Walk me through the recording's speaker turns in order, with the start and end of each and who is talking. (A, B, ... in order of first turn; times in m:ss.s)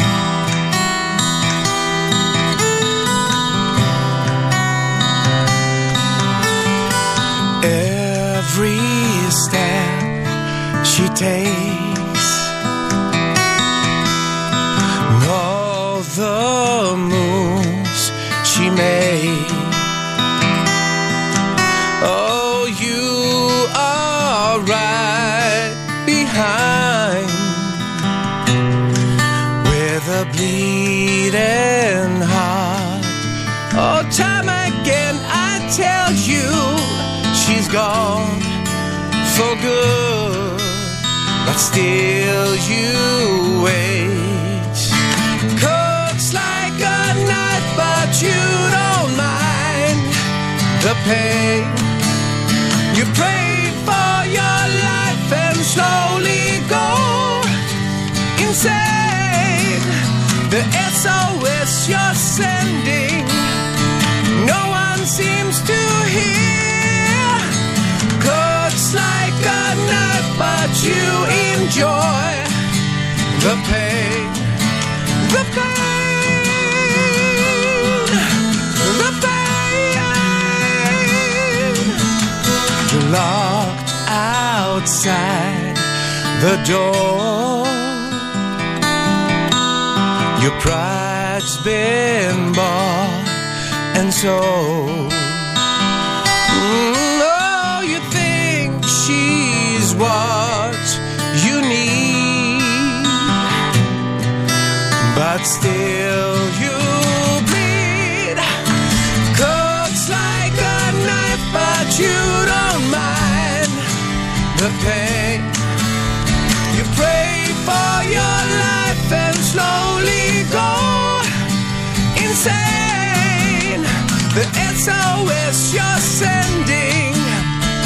0:07.6-0:10.2 A
0:10.8-0:12.4 A
0:15.0-0:19.9 A
0:22.0-0:28.1 A
0:29.6-0:38.6 A
0:39.2-0:50.2 A
0:50.7-0:51.8 A
0:52.9-0:57.5 A
0:58.3-1:03.6 A
1:04.3-1:07.6 A
1:08.2-1:12.5 A
1:13.3-1:14.5 A
1:15.2-1:22.1 A
1:22.7-1:28.3 A
1:30.3-1:33.4 A
1:33.9-1:35.5 A
1:36.5-1:43.4 A
1:45.0-1:53.8 A
1:54.5-1:55.5 A
1:56.7-2:01.3 A
2:02.1-2:07.6 A